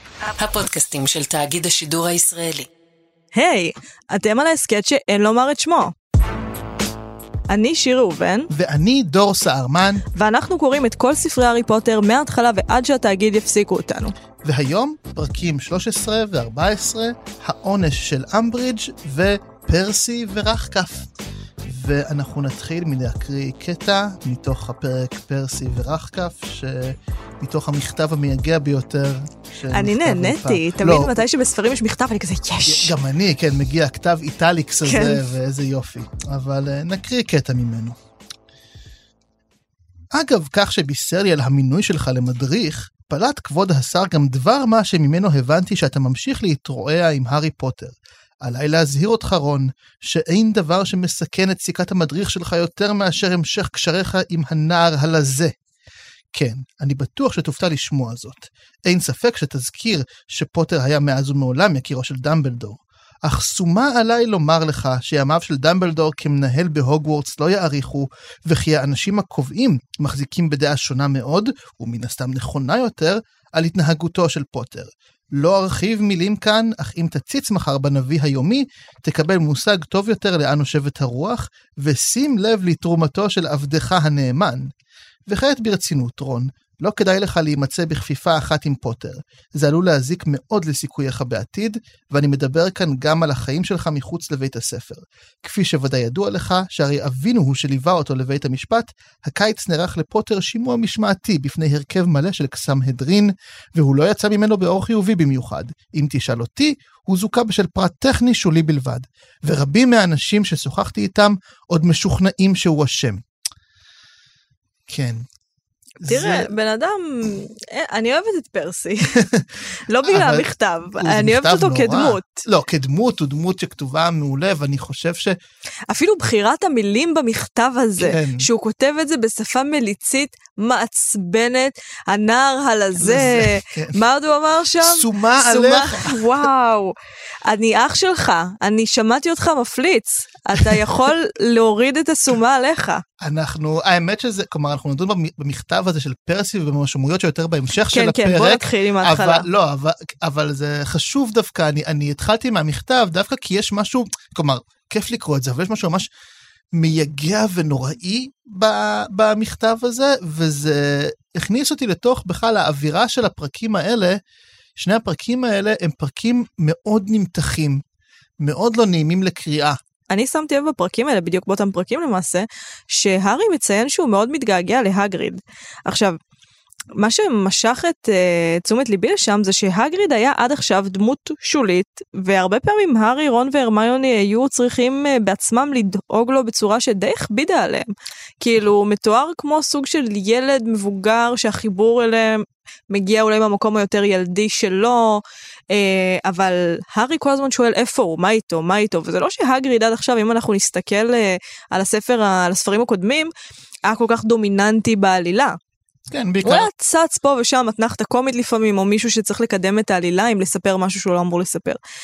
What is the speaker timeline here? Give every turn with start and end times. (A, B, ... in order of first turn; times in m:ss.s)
0:00.4-0:02.7 A
0:03.4-0:05.9 B
0:07.5-0:08.5 B
0:08.5-0:10.0 C
0:10.1-0:14.1 B
0:14.4-0:21.1 C
0:21.6-0:31.2 C
0:29.7-0:32.9 B
0:32.7-0:38.0 C
0:34.8-0:35.3 B
0:40.1-0:55.5 C
0:56.3-1:24.7 C
1:25.3-1:53.2 C
1:54.9-1:55.3 C
1:56.0-1:56.5 C
1:56.0-1:59.2 B
1:59.2-1:59.5 C
1:59.8-2:02.5 B
2:00.1-2:00.5 C
2:01.0-2:05.4 C
2:05.9-2:16.9 B
2:08.0-2:08.5 C
2:13.0-2:14.0 C
2:14.8-2:16.2 C
2:17.5-2:23.0 B
2:23.2-2:36.1 C
2:27.9-2:29.5 B
2:36.7-2:44.2 C
2:44.8-2:47.8 C
2:48.4-2:49.8 C
2:50.1-2:56.2 B
2:57.0-3:07.9 B
3:08.4-3:23.3 B
3:23.9-3:25.6 B
3:26.1-3:26.7 C
3:26.4-3:31.8 B